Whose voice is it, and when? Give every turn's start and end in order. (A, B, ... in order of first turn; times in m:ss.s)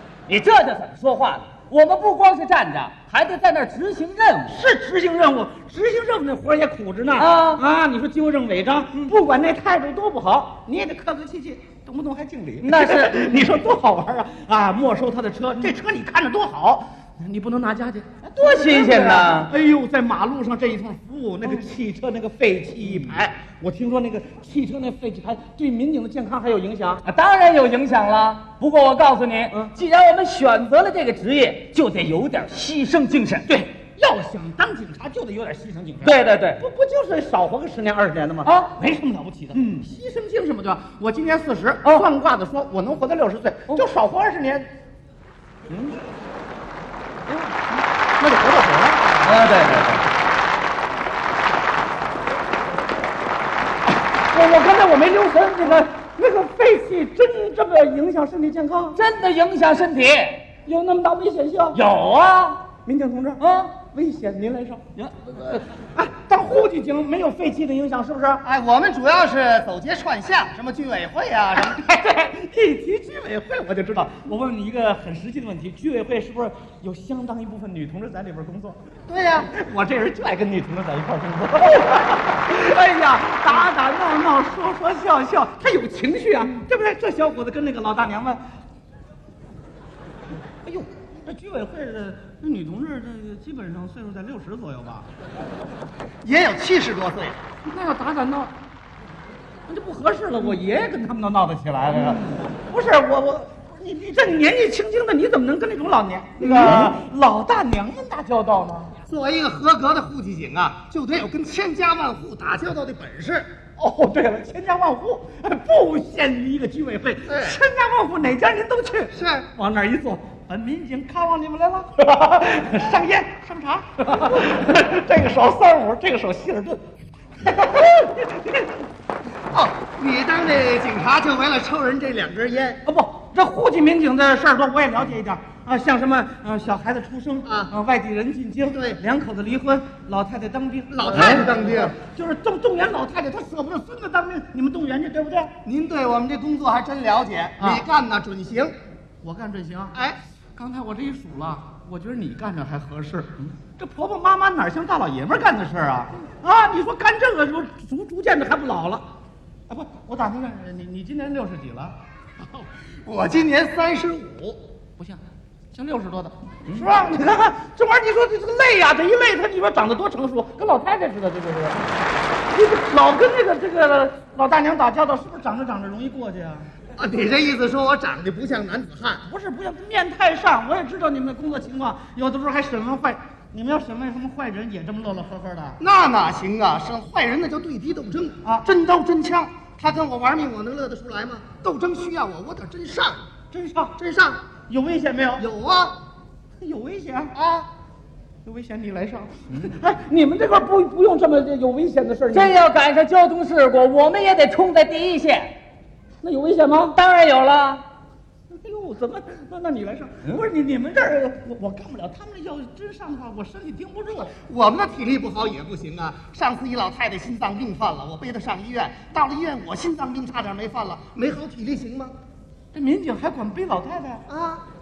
0:00.3-0:04.6 A
0:04.5-0:27.0 B
0:07.2-0:07.6 A
0:12.6-0:13.5 A
0:18.4-0:19.5 A
0:27.0-0:33.5 A
0:33.5-0:44.7 B
0:36.0-0:36.6 A
0:38.4-0:38.7 A
0:45.7-0:46.0 B
0:47.3-0:49.4 B
0:49.2-0:50.0 A
0:54.3-0:59.0 B
0:59.0-1:00.4 A
1:00.6-1:01.8 B
1:01.7-1:02.6 A
1:02.8-1:04.8 B
1:03.4-1:03.7 A
1:05.5-1:08.4 B
1:08.4-1:11.8 C
1:11.6-1:18.8 B
1:19.1-1:19.5 C
1:19.4-1:28.4 B
1:30.6-1:35.0 B
1:36.2-1:37.4 C
1:37.7-1:38.5 B
1:39.7-1:49.0 B
1:46.4-1:46.9 C
1:49.1-1:53.5 C
1:53.8-2:06.8 B
1:57.3-1:57.6 C
1:59.1-1:59.5 C
2:07.4-2:08.7 B
2:09.5-2:12.8 C
2:12.8-2:25.5 B
2:17.5-2:17.7 C
2:18.7-2:19.0 C
2:20.9-2:22.0 C
2:21.1-2:21.4 A
2:25.6-2:28.7 C
2:27.6-2:27.8 B
2:29.2-2:30.0 B
2:30.6-2:39.0 B
2:39.7-2:42.0 B
2:43.0-2:44.6 C
2:45.7-2:51.9 B
2:52.5-2:56.7 B
2:57.0-2:59.2 C
2:59.2-3:05.8 B
3:05.8-3:13.2 C
3:13.5-3:14.0 B
3:14.0-3:14.4 C
3:14.7-3:15.5 B
3:15.4-3:16.0 C
3:16.6-3:17.4 B
3:17.3-3:17.7 C
3:18.4-3:22.6 B
3:22.3-3:25.5 A
3:26.2-3:27.0 B
3:26.9-3:27.8 A
3:28.5-3:34.3 B
3:34.4-3:42.1 C
3:42.7-3:44.2 B
3:44.3-3:44.6 C